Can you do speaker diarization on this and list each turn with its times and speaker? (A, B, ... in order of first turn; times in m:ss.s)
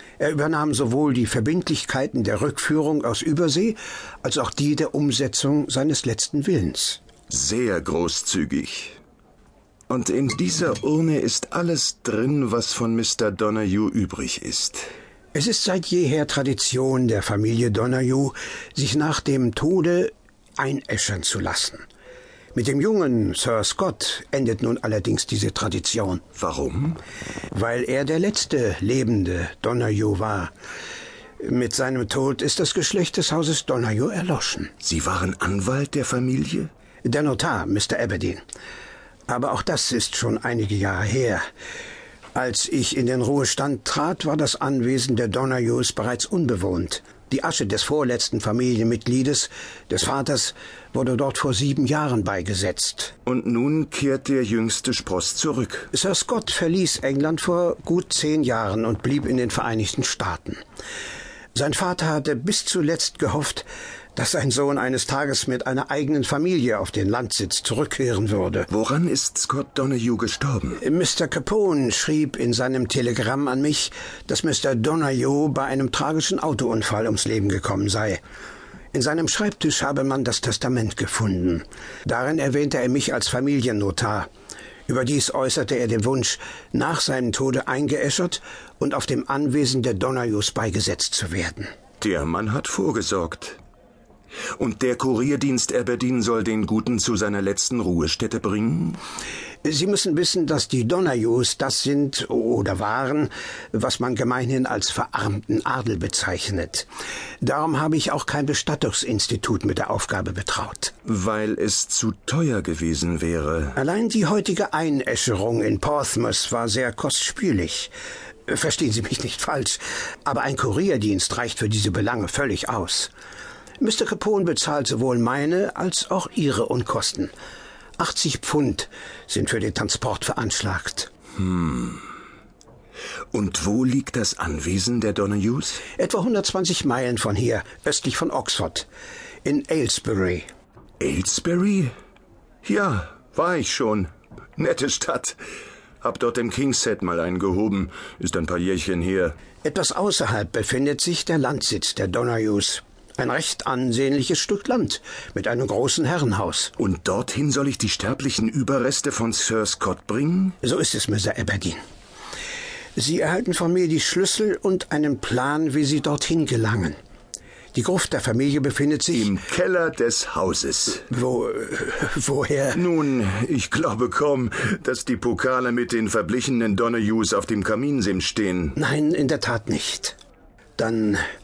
0:00.2-0:07.0 A
0:07.3-0:09.0 B
0:09.9-0:14.8 B
0:15.3-0:21.8 A
0:22.5-0:26.2 A
0:26.4-0:27.0 B
0:27.5-0:30.5 A
0:31.4-0:34.7 A
0:34.8-0:36.7 B
0:37.0-0:38.4 A
0:39.3-0:41.4 A
0:42.4-0:53.1 A
0:53.3-0:55.9 B
0:55.9-1:00.6 A
1:01.5-1:08.7 A
1:08.7-1:10.8 B
1:10.8-1:18.2 A
1:18.9-1:24.3 A
1:24.9-1:31.7 A
1:32.0-1:33.6 B
1:34.6-1:39.0 B
1:39.6-1:46.9 A
1:47.4-1:50.9 A
1:51.0-1:53.8 B
1:53.8-1:57.9 A
1:58.5-2:03.1 A
2:03.8-2:07.3 A
2:08.0-2:11.1 A
2:11.4-2:12.0 B
2:13.3-2:15.9 B
2:16.0-2:18.9 A
2:19.4-2:20.5 A
2:21.0-2:21.9 B
2:22.6-2:25.4 B
2:26.0-2:29.4 B
2:29.6-2:36.7 A
2:36.8-2:40.6 B
2:40.6-2:41.8 A
2:43.0-2:47.0 A
2:47.7-2:49.3 A
2:49.1-2:51.0 B
2:51.1-2:52.8 A
2:52.7-2:58.8 B
2:58.8-3:00.2 A
3:00.8-3:01.2 A